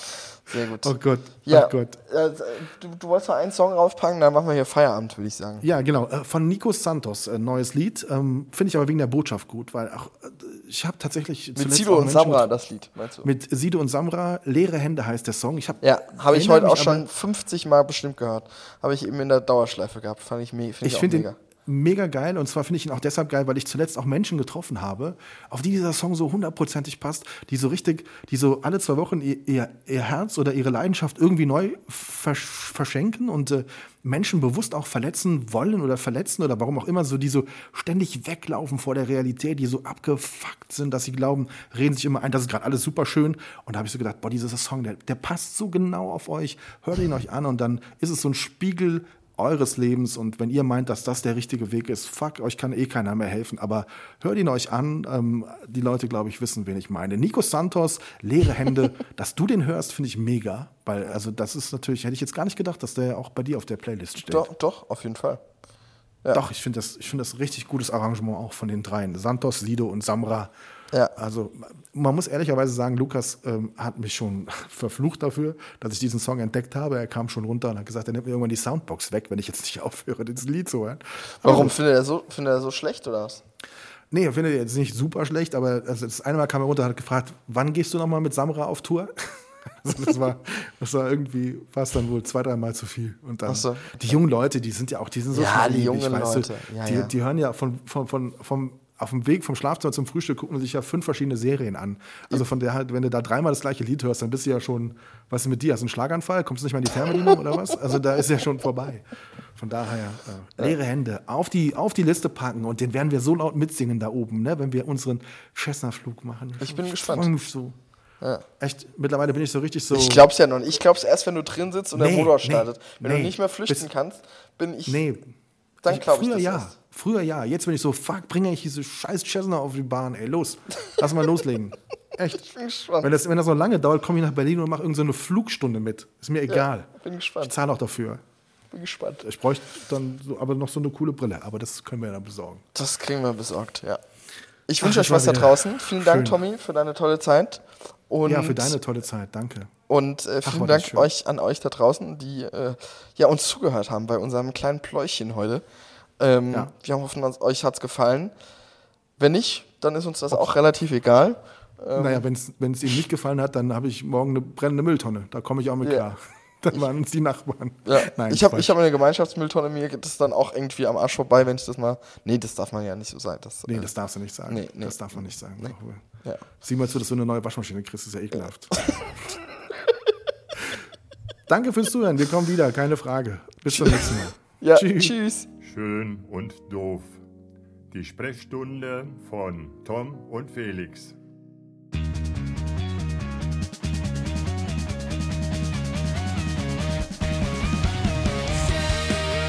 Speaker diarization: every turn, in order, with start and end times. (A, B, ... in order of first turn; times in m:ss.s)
0:00.4-0:05.6 A
0:00.8-0:02.0 B
0:05.6-0:12.5 B
0:11.5-0:13.3 A
0:13.2-0:17.0 B
0:15.8-0:21.4 A
0:20.8-1:04.5 B
1:04.3-1:05.4 A
1:06.3-1:10.5 B
1:11.1-1:21.8 B
1:21.4-1:23.4 A
1:24.1-1:57.8 B
1:33.4-1:34.2 A
1:35.3-1:37.1 A
1:56.6-1:57.3 A
1:58.6-2:00.3 B
1:59.9-2:05.0 A
2:01.9-2:03.9 B
2:04.9-2:05.3 B
2:05.8-2:06.7 A
2:05.8-2:12.4 B
2:12.3-2:13.1 A
2:13.0-2:18.2 B
2:16.5-2:17.5 A
2:18.7-2:19.2 A
2:19.2-2:22.6 B
2:22.7-2:24.0 A
2:24.7-2:28.8 A
2:24.8-2:26.4 B
2:28.2-2:29.7 B
2:29.9-2:35.6 A
2:30.4-2:31.1 B
2:36.2-2:38.3 A
2:39.2-2:42.2 A
2:41.9-2:48.7 B
2:47.8-2:53.9 A
2:53.6-2:56.0 B
2:54.4-2:55.7 A
2:56.6-2:59.4 B
2:58.8-2:59.0 A
3:01.5-3:05.1 B
3:03.7-3:05.5 A
3:05.6-3:07.2 C
3:07.9-3:11.2 C